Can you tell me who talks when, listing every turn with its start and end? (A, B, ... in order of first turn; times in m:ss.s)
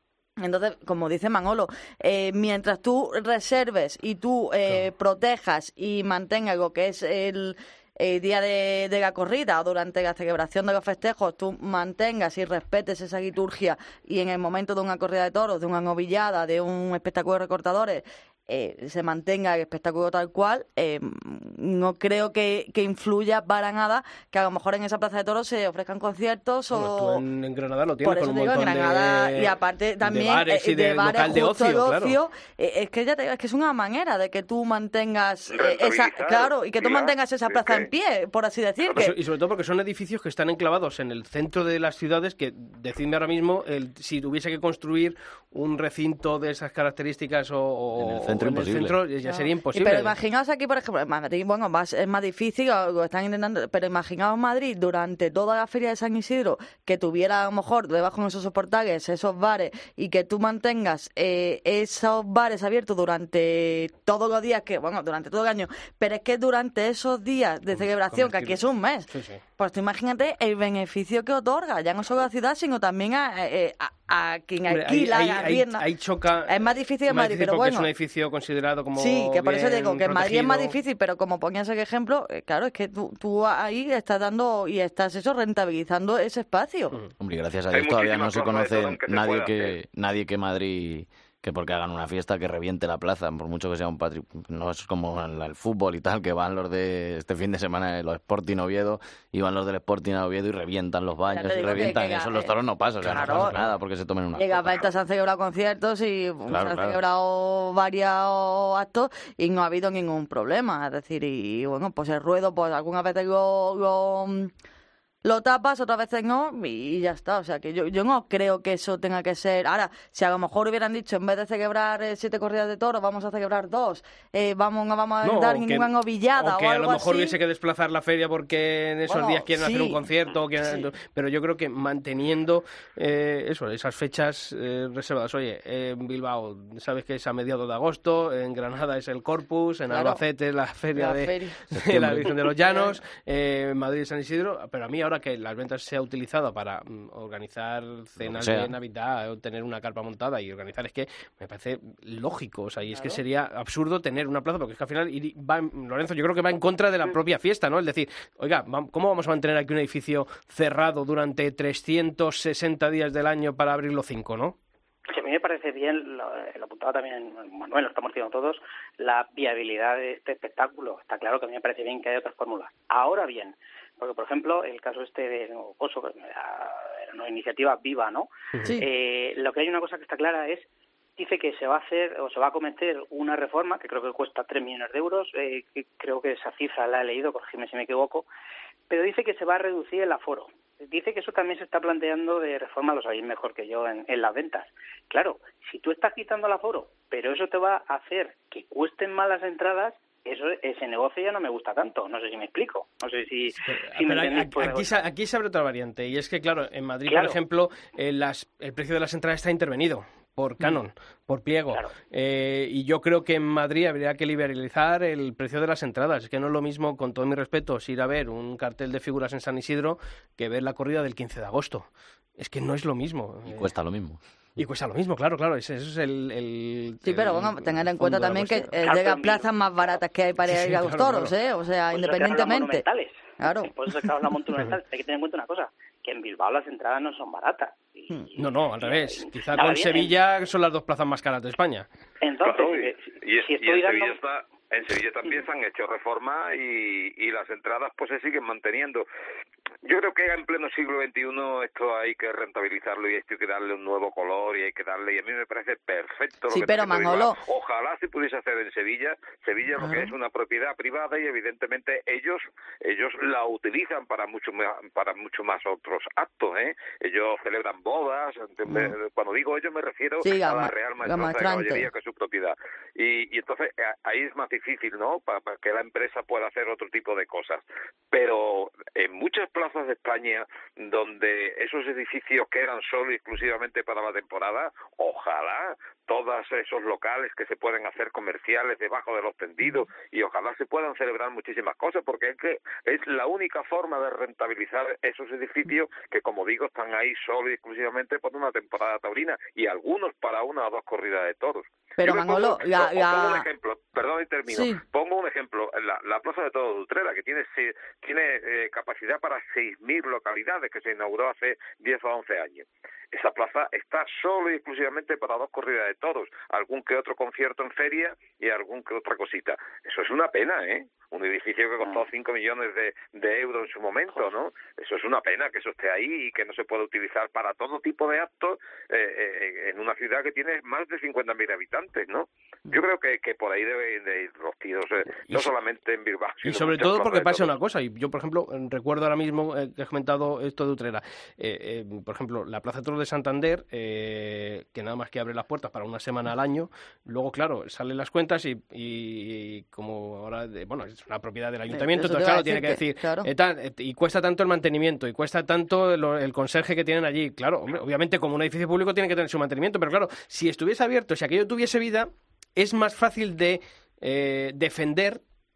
0:00.4-0:27.2 A
0:26.7-0:32.2 B
0:28.0-0:39.1 A
0:35.5-0:37.9 C
0:38.9-0:50.1 B
0:48.0-0:49.0 D
0:49.2-1:15.8 A
1:07.7-1:08.6 B
1:09.1-1:09.4 B
1:14.7-1:16.6 B
1:16.5-1:17.9 A
1:17.1-1:20.7 B
1:19.0-1:27.0 A
1:27.2-1:44.9 D
1:27.7-1:29.7 C
1:41.3-1:43.6 A
1:44.4-1:54.5 A
1:46.5-1:47.0 D
1:55.2-2:07.4 A
2:05.2-2:44.6 B
2:09.1-2:10.0 A
2:19.9-2:20.2 A
2:21.0-2:21.6 A
2:21.7-2:22.3 D
2:22.7-2:23.0 A
2:28.2-2:28.7 D
2:45.1-3:08.2 E
3:08.9-3:24.9 E
3:23.6-3:43.7 B
3:27.1-3:27.4 E
3:43.5-3:44.2 D
3:44.6-3:48.7 B
3:47.0-3:52.8 A
3:48.8-3:50.0 E
3:50.5-3:51.3 B
3:51.9-4:00.2 E
3:53.4-3:53.7 A
3:58.4-4:01.9 B
4:02.2-4:04.2 E
4:02.4-4:09.0 C
4:09.8-5:37.5 C
4:16.5-4:17.4 A
4:19.8-4:20.1 A
4:28.7-4:28.9 A
4:30.2-4:31.9 A
5:02.0-5:03.5 A
5:04.5-5:04.8 A
5:35.2-5:35.5 B
5:36.4-6:05.2 B
5:51.7-5:53.3 A